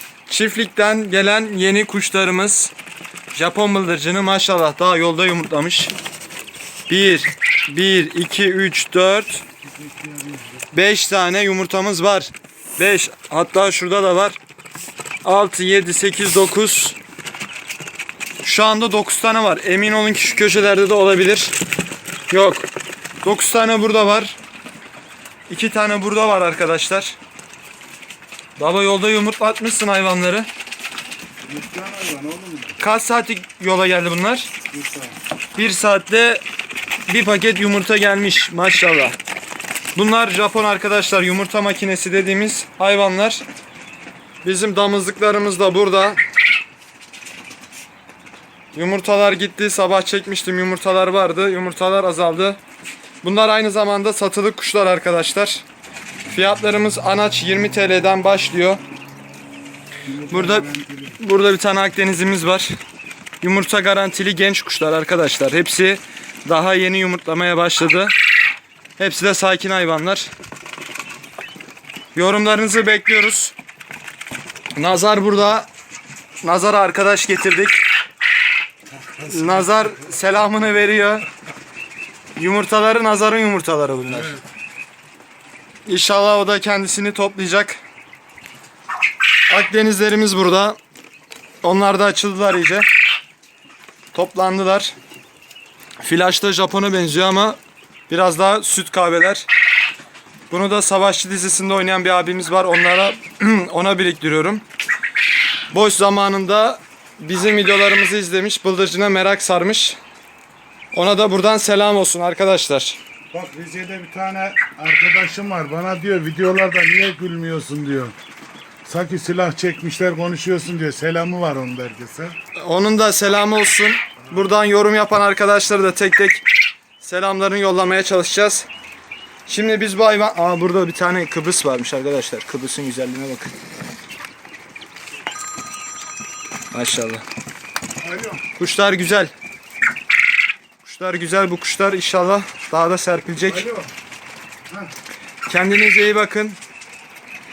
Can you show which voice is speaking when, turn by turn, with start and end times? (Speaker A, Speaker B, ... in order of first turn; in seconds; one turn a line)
Speaker A: 0.3-2.7
Speaker A: 3.3-5.9
Speaker A: 6.9-9.4
Speaker B: 9.6-10.6
Speaker A: 10.7-14.4
Speaker A: 15.2-17.0
Speaker A: 18.4-21.6
Speaker A: 22.3-22.7
Speaker A: 23.2-24.4
Speaker A: 25.5-27.2
Speaker A: 28.6-30.5
Speaker B: 31.4-32.8
Speaker A: 32.8-34.5
Speaker B: 34.7-35.2
Speaker A: 35.5-36.4
Speaker A: 37.1-39.1
Speaker A: 40.0-43.4
Speaker A: 44.4-46.2
Speaker A: 48.7-52.6
Speaker A: 53.2-55.6
Speaker A: 56.3-58.8
Speaker B: 60.1-61.2
Speaker A: 60.3-60.7
Speaker A: 61.2-62.7
Speaker A: 63.4-68.1
Speaker A: 69.0-70.3
Speaker A: 72.2-73.5
Speaker A: 74.8-75.7
Speaker A: 76.4-77.8
Speaker B: 78.9-80.1
Speaker A: 79.3-81.3
Speaker A: 82.4-84.4
Speaker A: 85.9-87.8
Speaker A: 89.5-90.8
Speaker A: 91.6-92.9
Speaker A: 94.1-94.9
Speaker A: 96.0-97.6
Speaker A: 98.1-99.5
Speaker A: 100.5-104.6
Speaker A: 105.7-110.0
Speaker A: 110.9-113.0
Speaker B: 113.3-118.1
Speaker B: 118.8-122.4
Speaker A: 122.6-126.4
Speaker A: 127.0-128.7
Speaker A: 129.5-133.5
Speaker A: 136.7-137.2
Speaker B: 138.0-138.4
Speaker A: 138.6-139.3
Speaker A: 140.8-143.7
Speaker B: 143.4-143.9
Speaker A: 145.5-146.6